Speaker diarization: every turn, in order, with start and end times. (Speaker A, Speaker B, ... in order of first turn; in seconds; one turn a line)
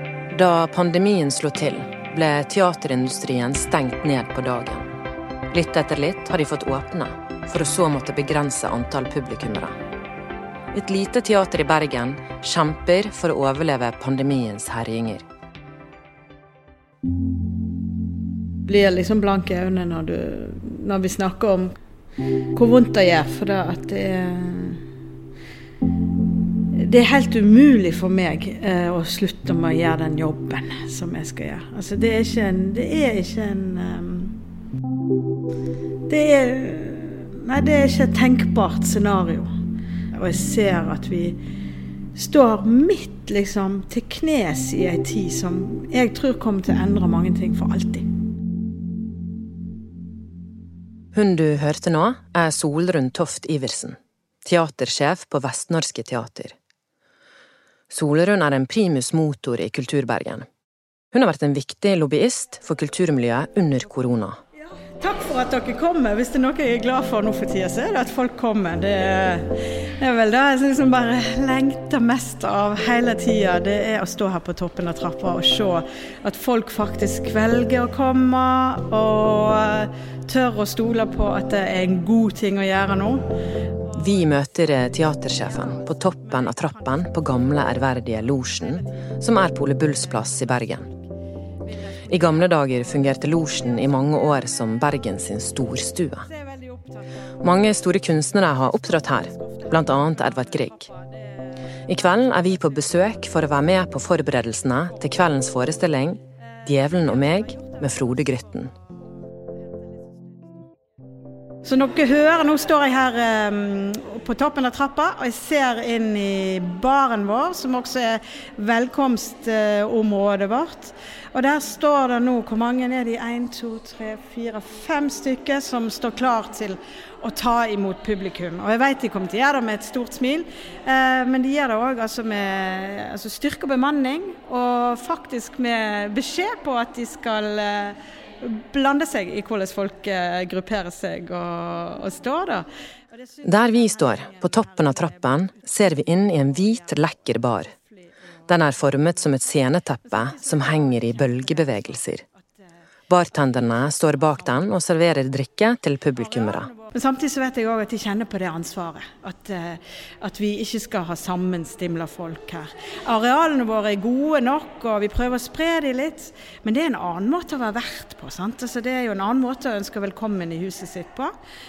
Speaker A: 0.3-4.9
Speaker A: 5.5-9.7
Speaker A: 10.7-15.2
Speaker B: 18.6-21.7
Speaker B: 22.5-24.8
Speaker B: 26.7-34.4
Speaker B: 36.1-39.5
Speaker B: 40.1-41.4
Speaker B: 42.1-48.0
Speaker A: 51.1-56.5
Speaker A: 57.9-60.5
Speaker A: 61.1-64.4
Speaker B: 65.0-83.2
Speaker A: 83.9-90.8
Speaker A: 92.1-96.3
Speaker A: 97.4-100.9
Speaker A: 101.9-108.7
Speaker B: 111.6-142.7
Speaker A: 143.4-147.7
Speaker A: 148.5-152.2
Speaker A: 153.1-156.7
Speaker B: 156.9-171.3